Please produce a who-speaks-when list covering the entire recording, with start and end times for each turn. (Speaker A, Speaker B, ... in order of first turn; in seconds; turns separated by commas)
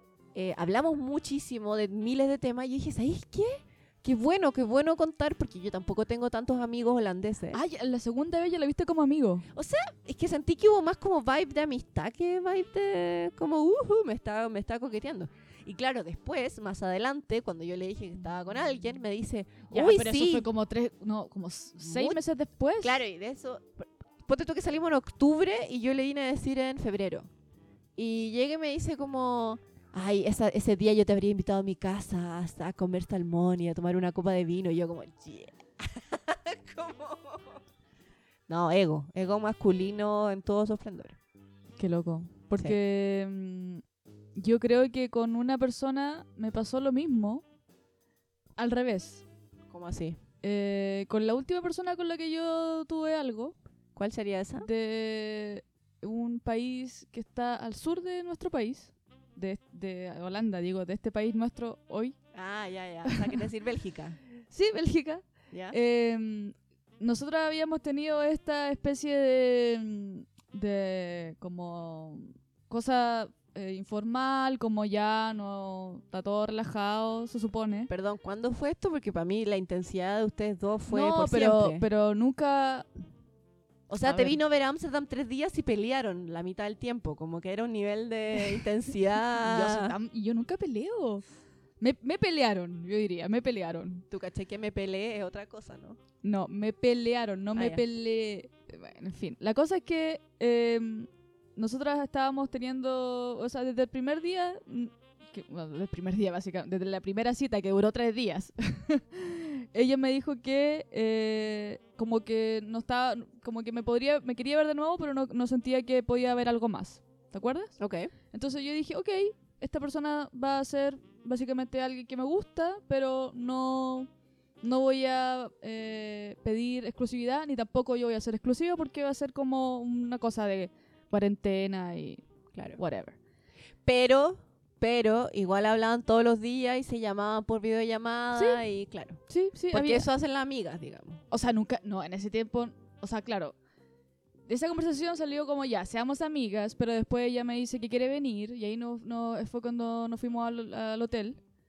Speaker A: 0.3-7.6, Speaker B: 7.5-9.5, Speaker A: 9.5-20.5, Speaker B: 19.7-22.9, Speaker A: 21.8-22.2, Speaker A: 22.8-27.3, Speaker A: 28.0-37.6, Speaker A: 38.5-41.2, Speaker B: 41.8-43.8, Speaker B: 44.4-47.4, Speaker B: 48.6-49.2, Speaker A: 49.7-50.2, Speaker B: 50.4-53.6, Speaker A: 54.0-54.7, Speaker B: 54.6-62.2, Speaker A: 62.3-64.2, Speaker B: 63.1-63.3, Speaker B: 64.5-77.9, Speaker A: 77.9-81.8, Speaker B: 80.9-82.9, Speaker A: 83.9-89.9, Speaker B: 84.0-84.4, Speaker B: 89.4-91.2, Speaker B: 91.8-94.0, Speaker A: 94.1-96.0, Speaker B: 96.2-117.8, Speaker A: 97.5-97.8, Speaker A: 117.8-118.1, Speaker B: 118.3-124.1, Speaker B: 124.6-132.2, Speaker A: 132.5-132.8, Speaker B: 132.8-133.2, Speaker A: 133.8-141.2, Speaker B: 138.3-138.6, Speaker B: 139.3-140.1, Speaker B: 141.3-143.6, Speaker B: 144.5-151.4